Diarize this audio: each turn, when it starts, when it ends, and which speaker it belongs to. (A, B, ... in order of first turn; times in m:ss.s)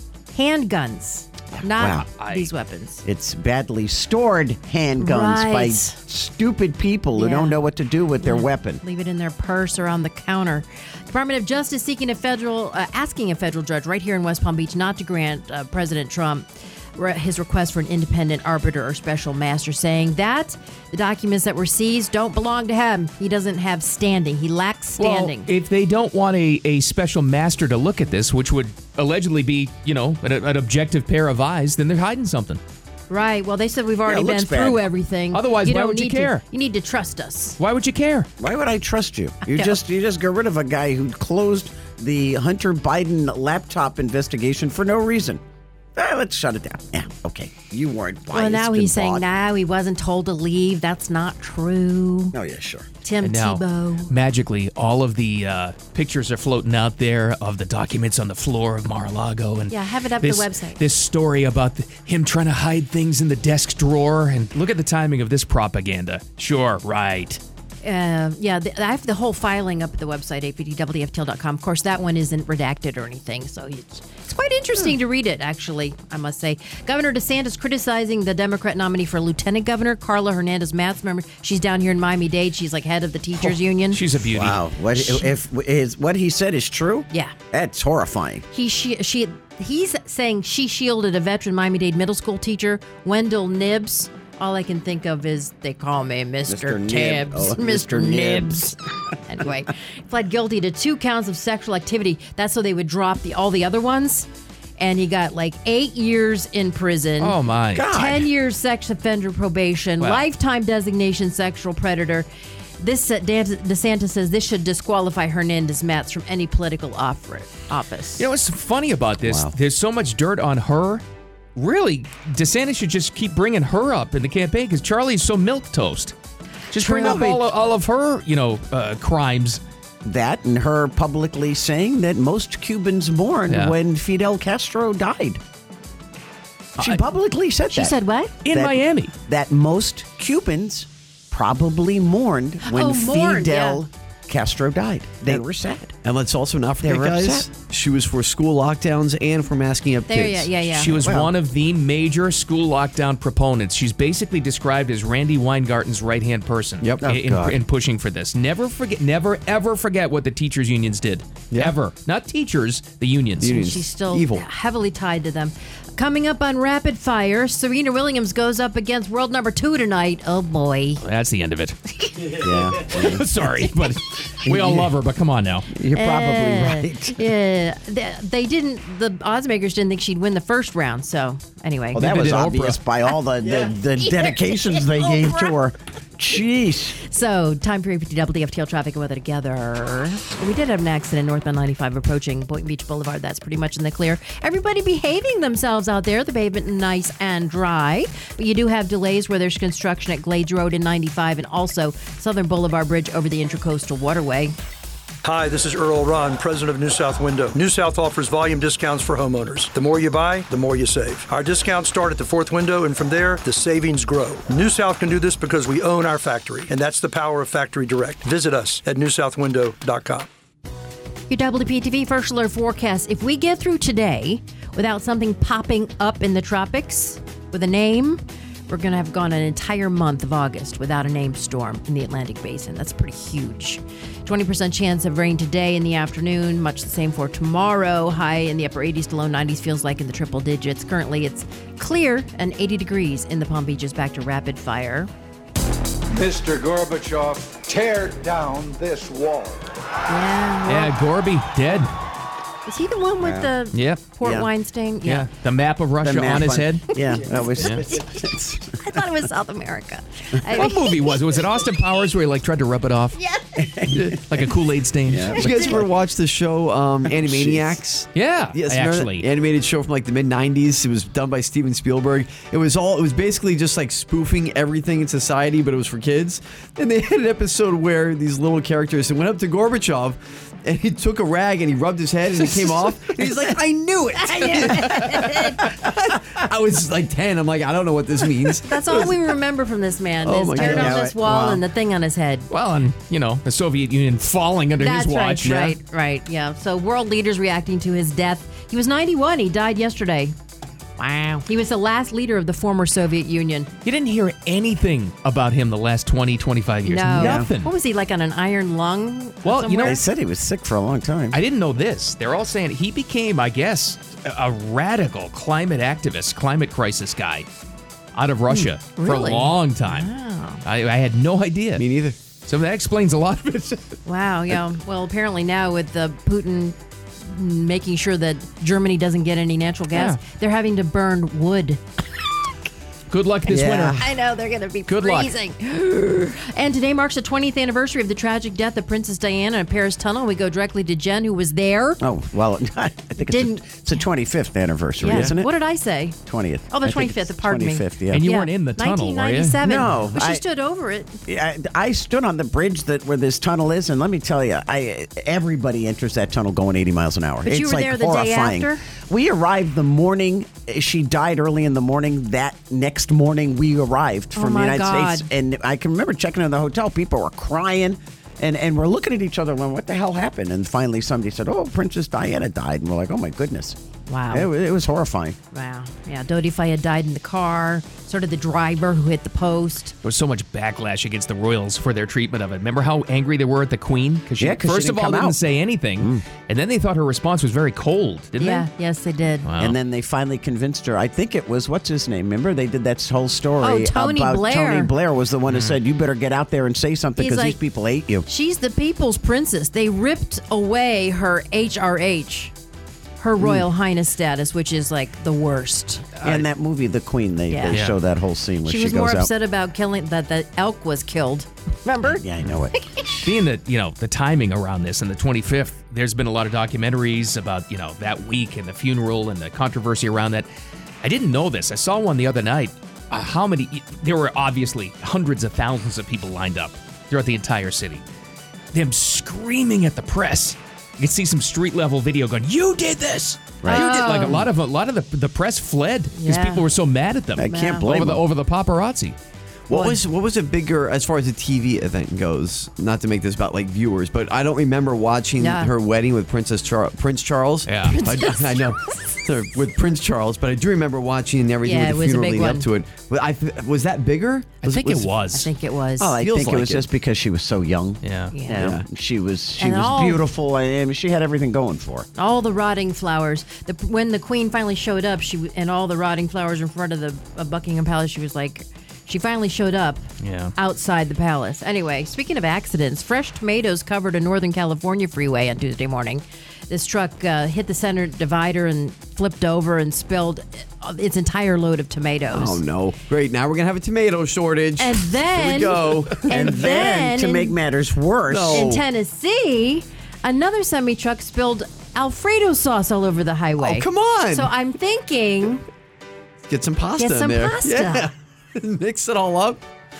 0:00.3-0:03.0 A
0:01.8-0:02.1 B
0:02.2-0:02.5 C
0:03.0-0:08.8 B
0:05.0-0:06.0 A
0:07.2-0:07.6 A
0:08.2-0:25.5 A
0:25.0-0:32.6 C
0:33.1-0:37.6 A
0:34.0-0:34.8 B
0:35.3-0:36.4 C
0:37.6-0:38.3 C
0:38.4-0:45.4 B
0:39.4-0:39.8 A
0:46.0-0:49.2 B
0:48.3-0:52.4 A
0:52.3-0:52.9 B
0:53.0-0:54.1 A
0:53.2-1:07.4 C
0:59.7-1:00.8 A
1:07.8-1:24.0 A
1:23.9-1:25.3 C
1:24.2-1:28.4 B
1:28.5-1:47.4 A
1:36.5-1:38.7 B
1:47.2-1:47.9 C
1:47.7-1:48.3 B
1:47.9-1:52.3 A
1:50.0-1:50.2 C
1:52.8-1:58.3 A
1:58.2-2:01.0 C
1:59.2-1:59.5 B
2:01.6-2:06.1 C
2:06.7-2:09.6 C
2:06.8-2:07.3 A
2:06.9-2:07.5 B
2:10.0-2:15.4 B
2:13.5-2:13.8 C
2:16.8-2:17.9 B
2:17.7-2:18.3 A
2:18.4-2:19.1 C
2:18.5-2:25.9 B
2:22.6-2:23.8 A
2:26.0-2:30.5 D
2:26.8-2:27.5 B
2:30.1-2:31.0 A
2:30.7-2:43.6 C
2:30.8-2:31.3 B
2:36.8-2:37.1 D
2:37.0-2:37.6 B
2:43.4-2:44.4 D
2:43.5-2:51.0 A
2:51.0-2:52.2 C
2:52.4-2:53.3 B
2:52.9-2:55.7 C
2:54.4-2:54.9 B
2:55.7-2:57.2 B
2:55.9-3:02.1 A
3:01.9-3:07.0 B
3:02.0-3:02.8 C
3:04.2-3:05.5 A
3:07.0-3:24.5 A
3:25.2-3:40.3 E
3:41.3-4:05.1 A
4:06.1-4:09.6 F
4:10.1-4:10.9 A
4:10.7-4:11.9 C
4:12.6-4:15.3 A
4:13.2-4:13.5 B
4:13.7-4:14.0 C
4:14.2-4:14.5 B
4:15.0-4:16.9 C
4:16.0-4:18.7 B
4:17.6-4:17.9 C
4:18.6-4:21.0 A
4:20.5-4:23.2 C
4:23.1-4:23.7 A
4:23.6-4:24.5 B
4:23.9-4:25.5 C
4:25.0-4:25.9 B
4:25.3-4:49.2 D
4:27.0-4:27.8 B
4:28.1-4:29.3 C
4:44.2-4:45.6 A
4:44.5-4:45.3 B
4:48.6-4:52.5 A
4:50.2-4:51.0 D
4:50.6-4:51.6 B
4:52.5-4:55.6 C
4:54.8-5:00.3 A
4:55.4-4:55.8 D
5:01.0-5:03.7 A
5:03.8-5:07.7 C
5:06.8-5:10.0 A
5:07.2-5:07.5 B
5:09.4-5:10.0 C
5:09.8-5:11.4 B
5:11.3-5:17.5 C
5:18.1-5:20.1 C
5:19.0-5:20.6 A
5:20.6-5:21.8 C
5:21.8-5:22.2 D
5:22.4-5:23.9 C
5:24.0-5:31.8 A
5:29.9-5:30.2 C
5:33.1-5:34.1 C
5:33.4-5:34.0 B
5:33.9-5:42.0 A
5:34.9-5:35.3 C
5:42.0-5:45.5 B
5:43.2-5:43.8 A
5:45.0-5:46.2 A
5:46.2-5:48.2 B
5:46.7-5:51.2 A
5:48.1-5:49.9 C
5:49.6-5:50.4 B
5:51.2-6:13.8 B
5:57.4-5:58.8 A
6:04.3-6:05.3 A
6:14.1-6:14.5 A
6:14.3-6:15.4 B
6:15.5-6:19.9 A
6:20.0-6:28.7 C
6:24.4-6:25.4 B
6:28.4-6:29.5 A
6:29.4-6:29.8 C
6:29.6-6:38.2 B
6:33.6-6:34.9 A
6:35.5-6:35.8 C
6:37.2-6:37.6 A
6:38.2-6:42.5 A
6:43.2-6:46.0 A
6:43.4-6:43.7 B
6:46.2-6:49.3 B
6:47.5-6:47.9 A
6:48.6-6:52.2 A
6:52.0-6:53.3 B
6:52.8-6:53.0 A
6:53.2-7:00.5 C
7:01.0-7:08.0 C
7:08.7-7:19.2 C
7:13.6-7:14.4 B
7:13.7-7:14.4 A
7:16.2-7:16.6 A
7:17.4-7:18.2 B
7:17.5-7:17.9 A
7:19.7-7:35.1 D
7:19.7-7:20.0 A
7:25.4-7:25.7 A
7:27.6-7:28.0 C
7:27.8-7:28.7 A
7:31.6-7:32.7 A
7:34.6-7:35.5 C
7:35.3-7:36.2 A
7:36.0-7:42.1 B
7:36.2-7:36.9 D
7:38.0-7:38.3 C
7:38.3-7:38.6 A
7:38.5-7:38.8 D
7:39.6-7:40.2 A
7:42.1-8:02.6 A
7:50.2-7:50.5 C
8:02.3-8:06.5 D
8:04.8-8:07.6 A
8:06.3-8:08.7 B
8:08.3-8:08.8 D
8:08.5-8:15.6 A
8:13.6-8:14.5 D
8:16.4-8:19.6 D
8:17.0-8:18.1 A